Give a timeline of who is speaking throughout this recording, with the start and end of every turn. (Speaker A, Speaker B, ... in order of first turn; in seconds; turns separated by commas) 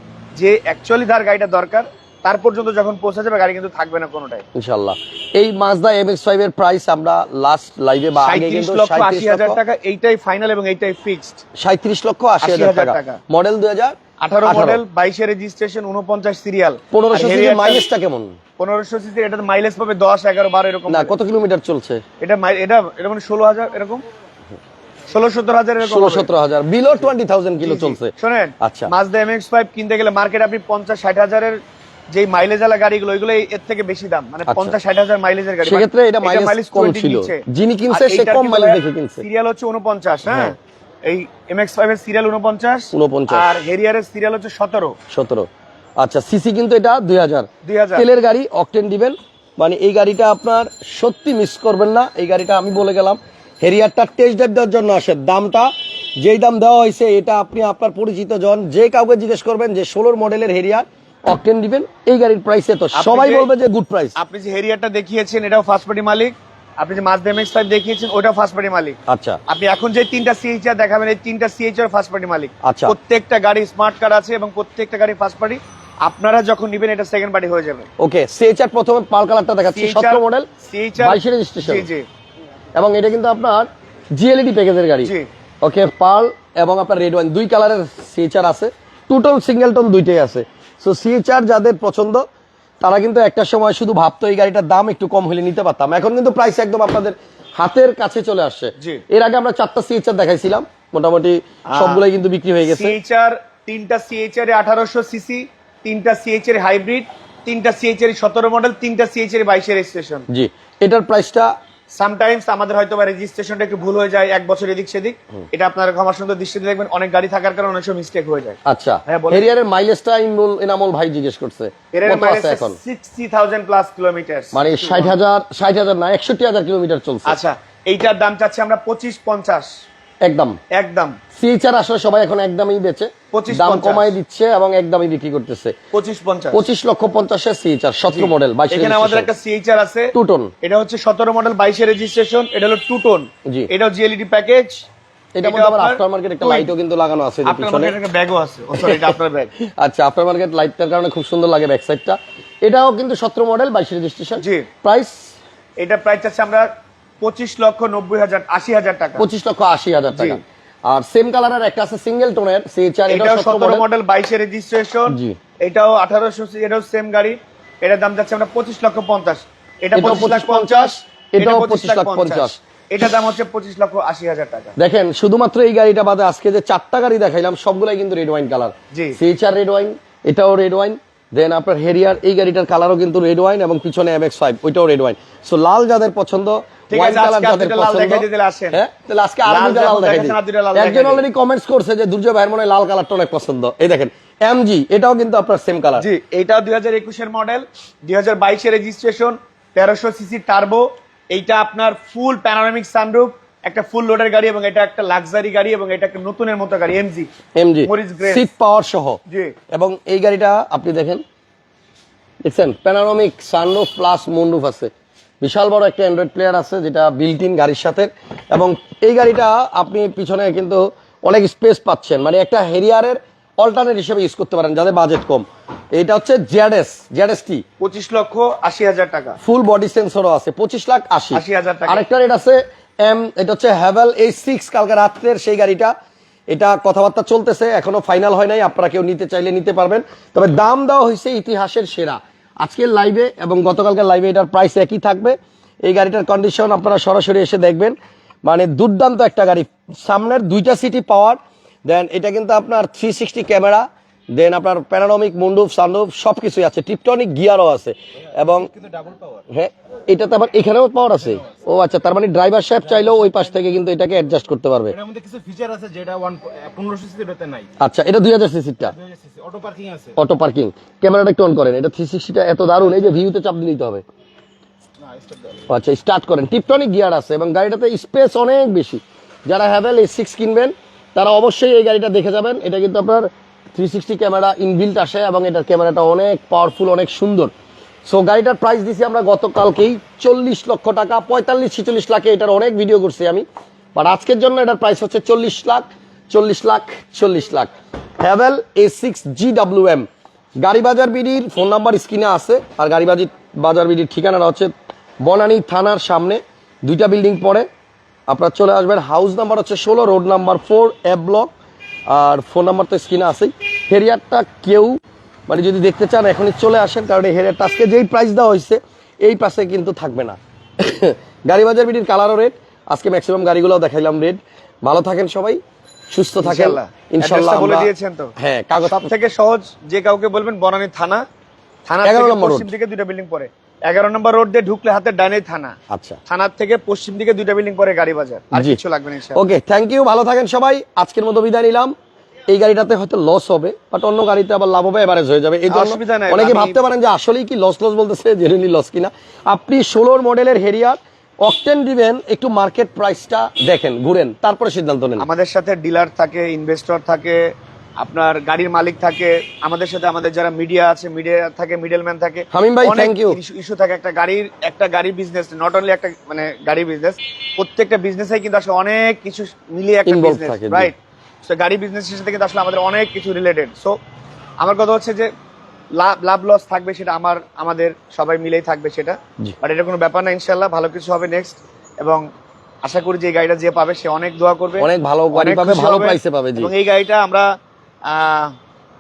Speaker A: 0.3-4.4, Speaker B: 4.5-9.6, Speaker A: 8.2-11.4, Speaker B: 11.6-14.8, Speaker A: 12.4-13.2, Speaker A: 14.2-17.8, Speaker B: 16.9-18.4, Speaker A: 18.6-21.2, Speaker B: 20.9-22.0, Speaker A: 22.2-24.0, Speaker A: 25.1-26.3, Speaker B: 25.8-28.9, Speaker A: 27.6-31.6, Speaker A: 32.1-45.0, Speaker B: 34.5-34.7, Speaker B: 35.6-39.2, Speaker B: 40.3-40.5, Speaker B: 42.9-43.5, Speaker B: 45.1-45.5, Speaker B: 46.0-64.2, Speaker A: 47.6-48.0, Speaker A: 62.9-63.5, Speaker A: 64.2-69.0, Speaker B: 69.1-69.4, Speaker A: 69.5-77.9, Speaker B: 72.6-72.9, Speaker B: 78.0-80.5, Speaker A: 79.7-82.1, Speaker B: 81.0-81.8, Speaker B: 82.7-92.2, Speaker A: 85.0-85.3, Speaker B: 92.8-102.9, Speaker A: 98.8-99.0, Speaker A: 101.7-102.0, Speaker A: 102.6-110.3, Speaker B: 110.3-111.5, Speaker A: 111.9-119.5, Speaker B: 118.7-122.8, Speaker A: 121.9-125.2, Speaker B: 124.5-127.4, Speaker A: 127.2-129.7, Speaker B: 130.2-130.6, Speaker A: 130.7-131.2, Speaker B: 131.3-135.8, Speaker A: 133.3-134.2, Speaker A: 135.9-136.6, Speaker B: 136.5-139.3, Speaker A: 138.1-144.8, Speaker B: 140.1-140.5, Speaker B: 145.3-147.9, Speaker A: 145.4-146.7, Speaker A: 147.4-149.5, Speaker B: 148.8-149.1, Speaker B: 149.7-155.3, Speaker A: 154.4-154.7, Speaker A: 155.8-156.7, Speaker A: 157.2-159.2, Speaker B: 159.2-163.8, Speaker A: 160.1-160.4, Speaker A: 163.1-174.8, Speaker B: 165.1-165.4, Speaker B: 169.9-172.6, Speaker B: 174.8-196.1, Speaker A: 178.9-179.2, Speaker A: 186.9-188.8, Speaker A: 189.5-191.2, Speaker A: 196.0-207.3, Speaker B: 207.6-209.2, Speaker A: 207.8-208.4, Speaker A: 209.3-209.5, Speaker B: 209.7-211.2, Speaker B: 212.4-227.6, Speaker A: 227.8-229.4, Speaker B: 229.4-235.9, Speaker A: 231.3-232.0, Speaker B: 236.5-258.7, Speaker C: 258.6-259.4, Speaker B: 259.5-264.9, Speaker C: 263.0-263.3, Speaker C: 265.0-267.7, Speaker B: 267.8-268.9, Speaker C: 269.0-270.1, Speaker B: 270.1-274.0, Speaker C: 275.1-275.6, Speaker B: 275.7-287.5, Speaker B: 288.1-300.1, Speaker B: 300.6-304.7, Speaker B: 305.2-307.7, Speaker B: 308.3-311.5, Speaker B: 312.1-325.6, Speaker B: 326.1-329.1, Speaker A: 326.4-331.2, Speaker A: 331.9-335.7, Speaker B: 332.0-332.7, Speaker B: 335.9-336.2, Speaker A: 336.3-339.4, Speaker B: 338.5-338.8, Speaker B: 339.3-341.9, Speaker B: 342.5-355.2, Speaker A: 345.7-346.8, Speaker A: 355.2-370.9, Speaker B: 362.5-363.4, Speaker B: 370.1-370.9, Speaker A: 371.4-374.0, Speaker A: 374.6-375.3, Speaker A: 375.9-382.2, Speaker A: 382.8-387.5, Speaker B: 384.8-386.7, Speaker A: 388.1-388.5